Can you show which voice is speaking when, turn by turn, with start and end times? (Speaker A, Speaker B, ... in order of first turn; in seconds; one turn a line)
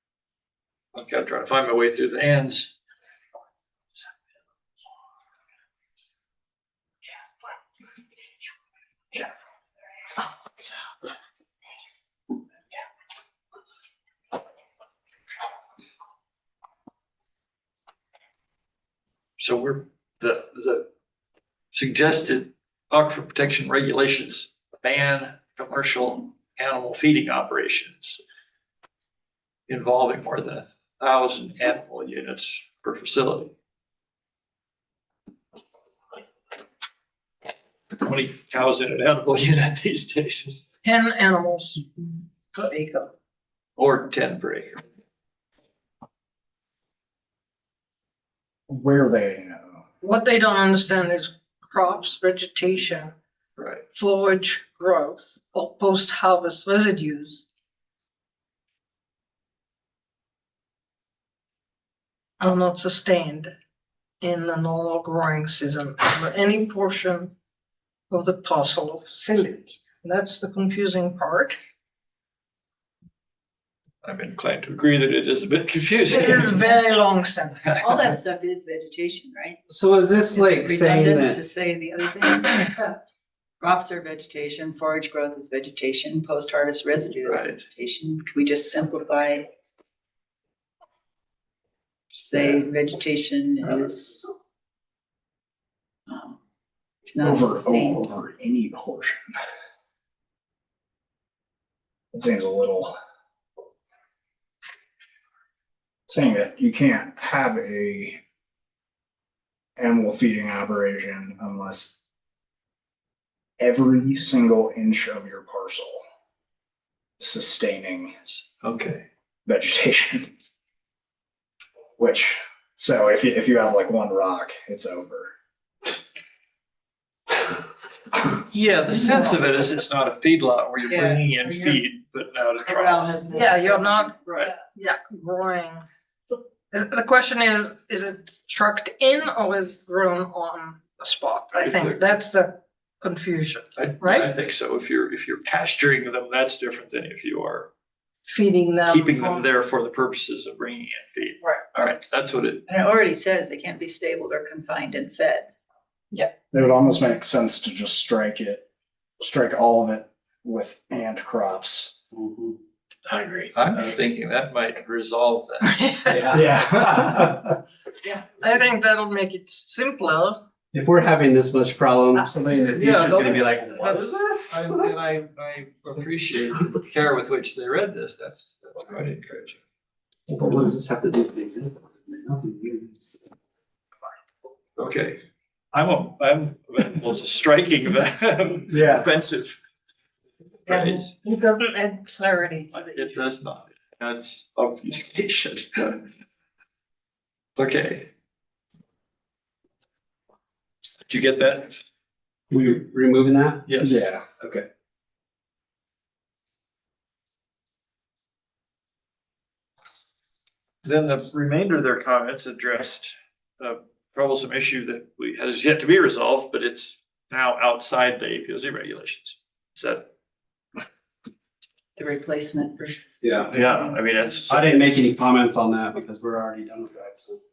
Speaker A: 0.9-2.7
Speaker A: 19.4-20.9
Speaker A: 21.7-28.2
Speaker A: 29.7-33.5
Speaker A: 38.0-40.6
Speaker B: 40.8-43.1
Speaker A: 43.8-44.8
Speaker C: 48.7-49.8
Speaker B: 50.0-53.1
Speaker A: 53.6-53.8
Speaker B: 53.9-57.4
Speaker B: 62.4-63.5
Speaker B: 64.2-67.3
Speaker B: 68.1-71.5
Speaker A: 74.0-76.7
Speaker B: 76.1-77.7
Speaker D: 77.8-79.6
Speaker E: 79.7-81.4
Speaker D: 80.3-82.9
Speaker D: 83.6-89.5
Speaker A: 87.3-87.6
Speaker D: 92.1-94.3
Speaker D: 96.1-96.4
Speaker D: 97.0-98.0
Speaker C: 97.2-99.3
Speaker C: 102.1-102.9
Speaker C: 106.1-108.2
Speaker C: 109.8-112.0
Speaker C: 113.6-116.0
Speaker C: 117.2-118.2
Speaker A: 118.6-119.0
Speaker C: 119.5-120.3
Speaker C: 122.0-125.3
Speaker A: 128.4-133.2
Speaker D: 130.9-131.8
Speaker D: 132.6-134.5
Speaker B: 133.3-135.8
Speaker A: 134.3-134.5
Speaker B: 136.7-144.3
Speaker A: 141.5-142.1
Speaker A: 143.8-147.7
Speaker B: 148.3-149.5
Speaker A: 148.9-152.6
Speaker D: 152.7-155.5
Speaker C: 156.5-158.7
Speaker C: 159.2-162.0
Speaker E: 162.1-162.6
Speaker C: 163.1-163.5
Speaker A: 163.5-165.7
Speaker B: 165.6-166.4
Speaker E: 166.1-167.4
Speaker C: 166.2-167.2
Speaker B: 168.0-170.4
Speaker E: 170.7-174.9
Speaker A: 172.7-179.6
Speaker E: 180.3-183.1
Speaker A: 184.8-185.2
Speaker A: 185.7-189.6
Speaker C: 188.7-189.1
Speaker A: 190.7-191.1
Speaker B: 190.7-192.8
Speaker A: 192.7-196.1
Speaker A: 197.6-198.1
Speaker A: 201.1-201.7
Speaker E: 202.5-204.6
Speaker A: 203.7-204.1
Speaker C: 203.8-204.2
Speaker A: 210.8-220.1
Speaker D: 221.9-224.2
Speaker E: 223.2-223.6
Speaker A: 223.5-225.1
Speaker E: 224.5-227.4